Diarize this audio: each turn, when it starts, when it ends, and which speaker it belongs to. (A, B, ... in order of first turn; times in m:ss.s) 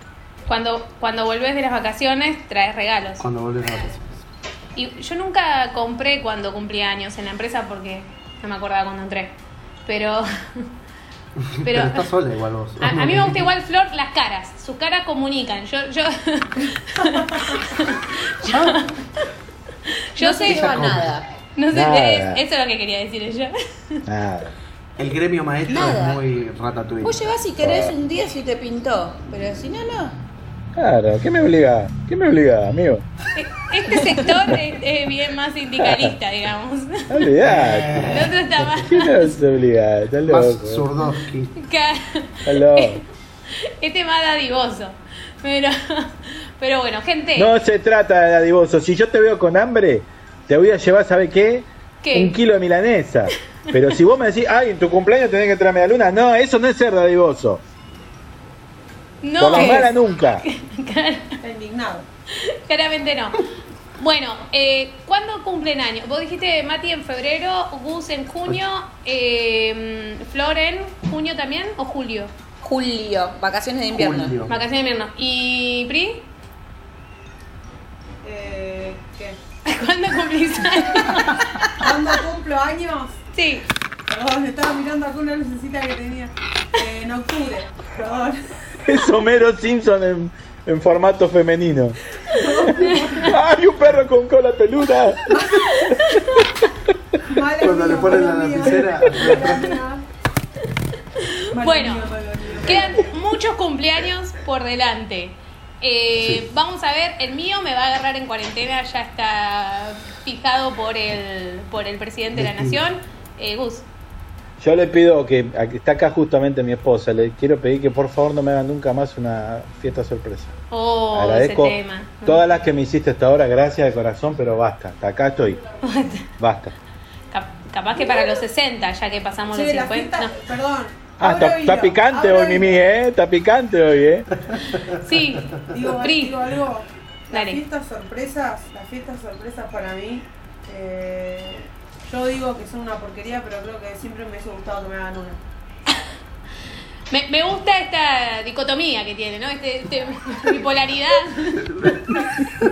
0:00.5-0:03.2 A
0:03.2-0:04.2 B
0:04.8-0:10.7 A
0:11.4-0:13.5 B
0:11.6-0:12.1 A
0:12.8-0:19.2 A
0:18.4-0:18.8 B
0:19.9-0:20.7 A
0:20.2-0:21.2 C
0:20.4-0:21.1 B
0:21.6-0:24.0 A
0:21.7-0:22.4 D
0:24.0-0:24.5 D
0:25.0-0:27.9 B
0:25.7-0:26.2 C
0:27.0-0:30.2 C
0:30.8-0:33.0 D
0:33.3-0:37.2 A
0:33.9-0:34.2 C
0:35.9-0:36.1 D
0:37.1-0:38.1 D
0:37.4-0:38.9 B
0:38.1-0:39.4 A
0:38.9-0:40.8 D
0:40.2-0:41.5 B
0:41.6-0:47.5 A
0:42.4-0:43.0 D
0:47.4-0:57.6 D
0:52.0-0:52.4 A
0:59.2-1:01.4 A
0:59.4-1:00.4 D
0:59.5-0:59.9 E
1:01.4-1:02.1 E
1:02.3-1:03.4 A
1:04.0-1:12.3 A
1:12.6-1:14.4 C
1:13.9-1:14.6 B
1:14.5-1:16.3 A
1:18.2-1:19.4 E
1:19.6-1:21.8 A
1:21.2-1:23.2 E
1:23.3-1:23.7 A
1:24.1-1:28.6 E
1:28.8-1:35.8 D
1:32.3-1:33.4 E
1:32.8-1:33.2 A
1:35.3-1:35.7 E
1:35.5-1:36.5 A
1:37.2-1:40.0 E
1:37.6-1:39.7 B
1:41.2-1:42.1 A
1:41.5-1:43.1 E
1:42.6-1:53.8 A
1:46.2-1:46.5 B
1:52.3-1:52.8 B
1:54.6-2:00.5 D
2:00.7-2:02.4 A
2:01.1-2:05.6 D
2:05.8-2:06.3 A
2:06.4-2:06.7 D
2:07.3-2:10.3 A
2:09.5-2:12.8 E
2:11.2-2:14.3 D
2:14.9-2:16.4 A
2:15.7-2:25.4 E
2:17.3-2:17.6 A
2:27.1-2:32.2 A